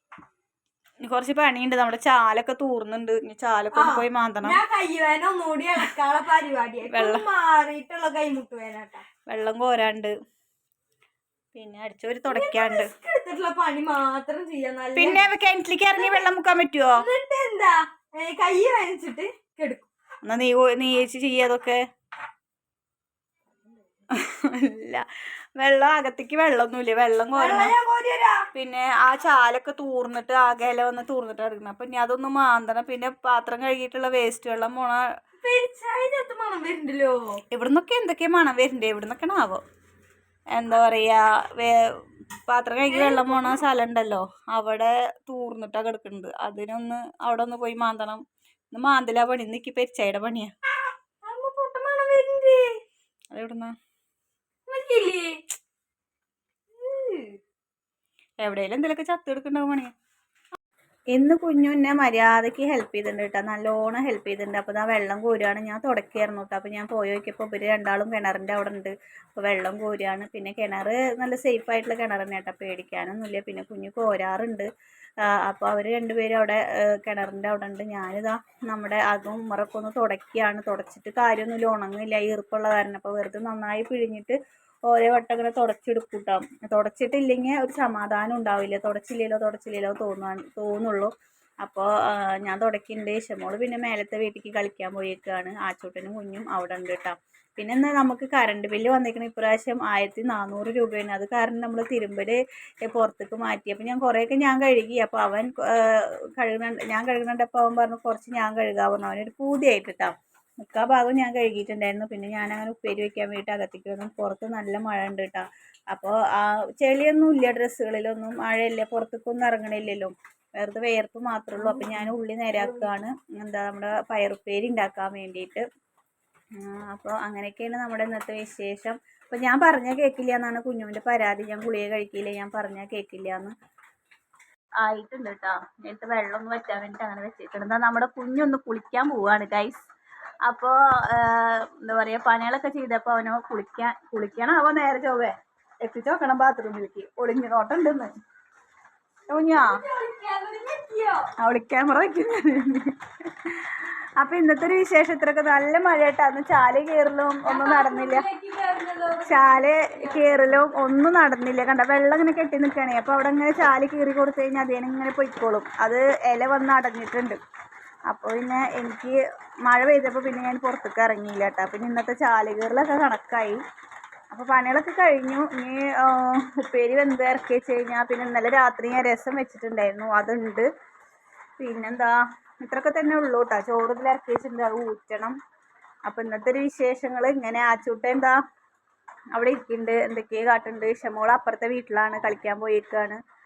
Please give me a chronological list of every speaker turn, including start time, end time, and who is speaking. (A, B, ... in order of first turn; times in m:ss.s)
0:01.0-0:04.6 A
0:03.7-0:09.0 B
0:06.9-0:07.2 A
0:09.3-0:10.1 A
0:11.5-0:12.9 A
0:12.2-0:15.3 B
0:14.9-0:17.0 A
0:15.9-0:16.2 B
0:16.9-0:19.9 B
0:20.2-0:21.8 A
0:24.1-0:25.0 A
0:25.6-0:27.7 A
0:27.3-0:28.4 B
0:28.5-0:35.0 A
0:35.4-0:37.4 B
0:37.5-0:39.6 A
0:40.6-0:41.8 A
0:42.5-0:50.5 A
0:42.9-0:43.6 B
0:51.2-0:52.7 B
0:53.3-0:53.7 A
0:54.7-0:55.4 B
0:56.7-0:57.4 B
0:58.4-0:59.9 A
1:01.1-1:14.7 A
1:15.2-1:24.4 A
1:24.9-1:31.1 A
1:31.6-2:05.6 A
2:01.6-2:02.9 B
2:06.6-2:13.5 A
2:14.8-2:19.9 A
2:20.5-2:28.1 A
2:29.3-2:29.8 A
2:29.5-2:31.3 B
2:31.4-2:38.2 A
2:37.4-2:40.6 B
2:39.2-2:47.4 A
2:48.1-2:49.2 A
2:49.7-2:53.6 A
2:54.3-3:00.7 A
3:01.6-3:05.4 A
3:06.1-3:08.4 A
3:09.3-3:13.2 A